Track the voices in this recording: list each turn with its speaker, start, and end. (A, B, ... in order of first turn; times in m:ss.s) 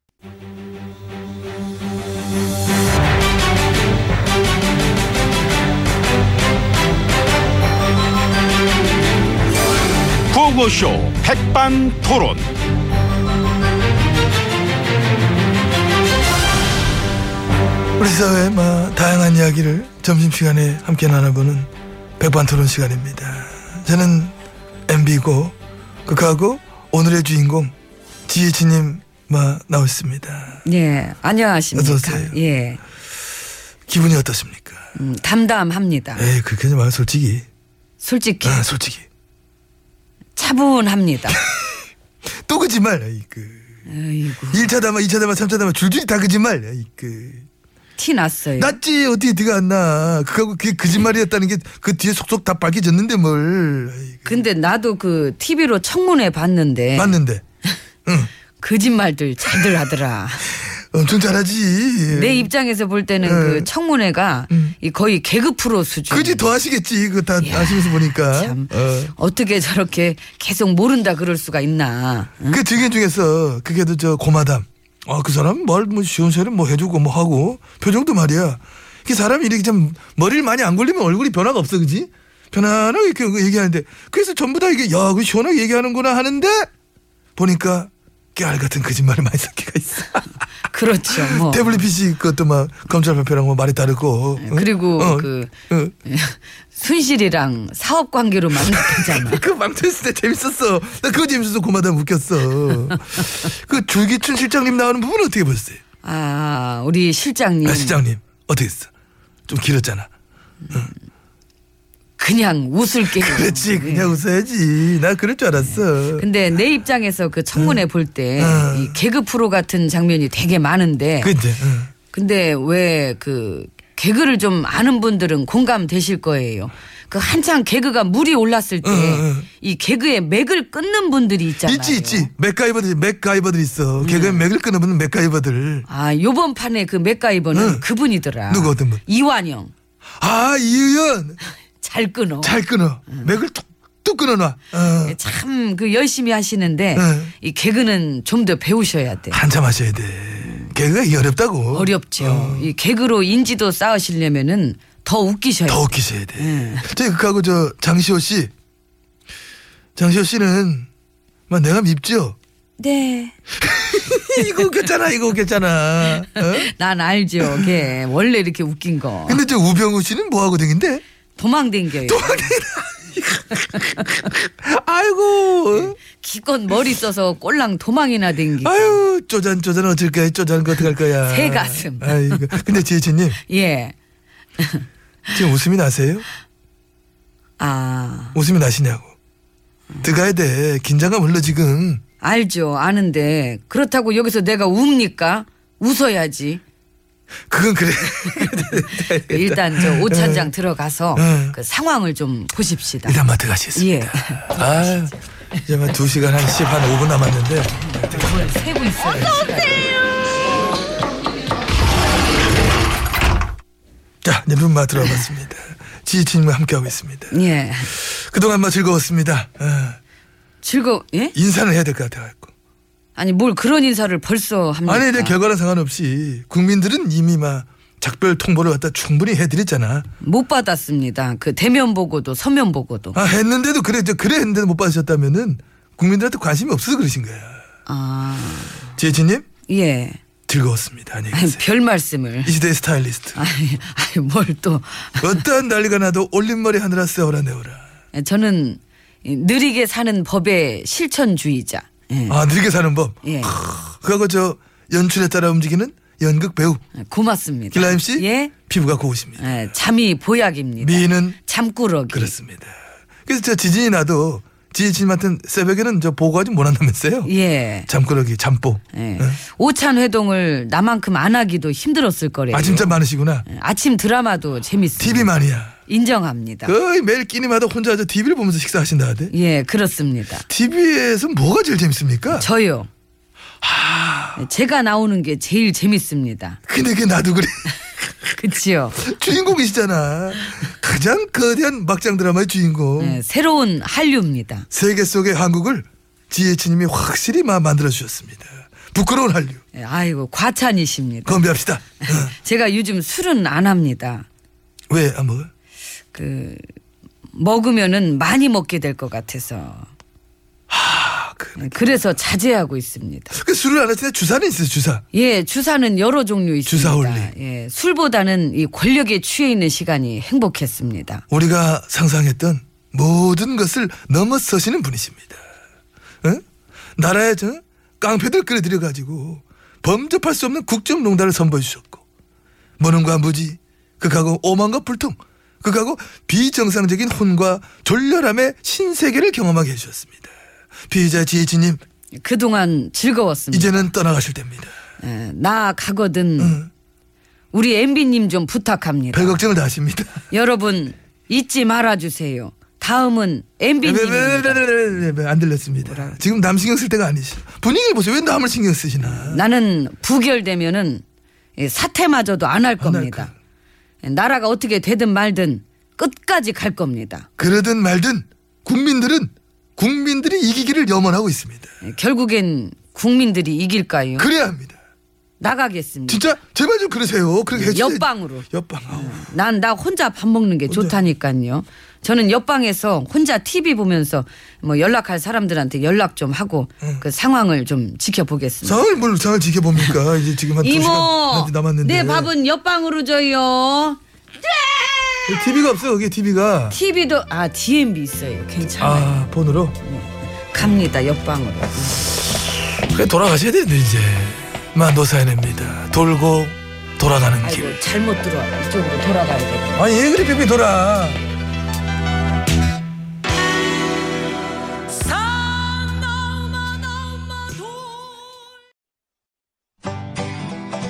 0:10.3-0:12.5 A
0:18.0-0:24.3 B
0:24.9-0:27.7 B
0:28.3-0:30.6 B
0:30.6-0:32.8 C
0:31.7-0:32.4 B
0:33.9-0:34.9 B
0:35.0-0:36.3 C
0:36.2-0:37.4 B
0:38.0-0:38.6 C
0:38.4-0:39.0 B
0:40.4-0:41.4 C
0:41.3-0:41.8 B
0:42.4-0:43.8 B
0:43.9-0:44.7 C
0:44.5-0:47.4 B
0:48.0-0:48.8 C
0:48.6-0:54.4 B
0:54.2-0:57.2 C
0:57.0-0:57.4 B
0:58.6-1:00.5 C
1:00.8-1:02.5 B
1:02.1-1:06.5 C
1:03.2-1:03.7 B
1:04.5-1:04.7 B
1:06.1-1:09.1 B
1:07.4-1:12.6 C
1:12.5-1:26.7 B
1:27.4-1:30.3 B
1:30.7-1:31.7 C
1:31.1-1:35.9 B
1:34.4-1:35.5 C
1:36.0-1:39.4 C
1:38.6-1:45.8 B
1:46.0-1:48.0 C
1:47.6-1:48.9 B
1:49.5-1:50.1 B
1:52.2-1:54.2 C
1:53.0-1:56.3 B
1:55.6-2:01.3 C
1:57.5-1:57.8 B
1:58.4-1:59.0 B
2:01.2-2:01.9 B
2:02.1-2:12.3 C
2:08.8-2:09.5 B
2:11.6-2:15.8 B
2:14.0-2:14.5 C
2:15.9-2:19.7 C
2:17.5-2:17.8 B
2:18.5-2:19.0 B
2:20.2-2:21.4 B
2:21.8-2:22.6 C
2:22.4-2:25.2 B
2:25.0-2:29.4 C
2:26.9-2:27.3 B
2:29.3-2:32.7 B
2:30.4-2:30.7 C
2:31.7-2:36.8 C
2:35.7-2:38.5 B
2:40.0-2:40.9 B
2:41.5-2:42.4 B
2:42.8-2:43.4 C
2:43.6-2:46.7 B
2:46.4-2:49.4 C
2:47.4-2:47.7 B
2:49.2-2:51.0 B
2:51.4-2:52.5 C
2:52.0-2:56.0 B
2:56.1-2:59.0 C
2:58.6-3:03.4 B
3:00.8-3:02.6 C
3:03.5-3:03.9 C
3:05.3-3:06.2 B
3:07.6-3:08.4 C
3:08.3-3:09.1 B
3:10.0-3:12.0 B
3:12.2-3:16.6 C
3:17.5-3:20.5 B
3:18.2-3:23.2 C
3:21.1-3:21.6 B
3:23.0-3:25.1 B
3:23.7-3:24.9 C
3:25.6-3:28.2 B
3:27.9-3:29.9 C
3:34.2-3:37.4 B
3:37.3-3:37.9 C
3:37.9-3:40.0 B
3:40.6-3:41.3 C
3:41.3-3:42.5 B
3:43.1-3:45.4 C
3:44.8-3:50.1 B
3:50.2-3:53.2 C
3:53.1-3:57.6 B
3:57.9-3:58.9 C
3:59.0-3:59.4 B
3:59.7-4:00.2 C
4:00.5-4:01.6 B
4:01.3-4:02.5 C
4:02.4-4:03.4 B
4:03.4-4:05.4 C
4:05.2-4:07.8 B
4:08.1-4:12.4 C
4:12.3-4:16.8 B
4:13.2-4:13.6 C
4:17.0-4:18.5 C
4:17.7-4:19.6 B
4:19.4-4:22.3 C
4:20.8-4:21.4 B
4:22.1-4:27.3 B
4:27.2-4:27.9 C
4:27.9-4:29.4 B
4:28.9-4:35.3 C
4:32.5-4:33.4 B
4:35.0-4:35.8 B
4:35.9-4:36.7 C
4:36.6-4:39.3 B
4:39.3-4:40.4 C
4:40.5-4:42.5 B
4:42.3-4:42.9 C
4:43.6-4:44.4 B
4:44.4-4:46.6 C
4:46.7-4:48.4 B
4:48.4-4:49.1 C
4:49.0-4:53.2 B
4:53.0-4:54.7 C
4:54.7-4:59.6 B
4:59.7-5:04.2 C
5:01.2-5:02.3 B
5:04.9-5:05.5 B
5:06.1-5:06.6 C
5:07.3-5:09.9 C
5:10.7-5:11.6 B
5:11.6-5:13.3 C
5:13.3-5:15.0 B
5:15.1-5:21.2 C
5:16.6-5:17.3 B
5:21.3-5:25.4 B
5:27.0-5:32.0 B
5:32.8-5:40.3 B
5:40.9-5:41.8 B
5:42.2-5:43.9 C
5:43.5-5:44.7 B
5:45.0-5:46.6 C
5:46.4-5:46.7 B
5:47.5-5:49.4 C
5:49.1-5:50.2 B
5:50.3-5:54.6 C
5:53.8-5:59.4 B
5:55.8-5:56.2 C
5:59.1-6:01.0 C
6:01.6-6:03.3 C
6:02.8-6:03.3 B
6:04.0-6:07.3 C
6:07.4-6:11.7 B
6:11.8-6:14.3 C
6:14.2-6:14.8 B
6:15.4-6:16.2 C
6:16.1-6:19.2 B
6:17.5-6:28.8 C
6:20.7-6:21.0 B
6:28.6-6:32.3 B
6:30.6-6:35.6 C
6:35.3-6:36.8 B
6:36.7-6:42.1 C
6:38.8-6:39.8 B
6:42.6-6:47.8 B
6:47.4-6:49.8 C
6:49.8-6:51.2 B
6:55.1-6:56.8 C
6:57.5-6:57.8 C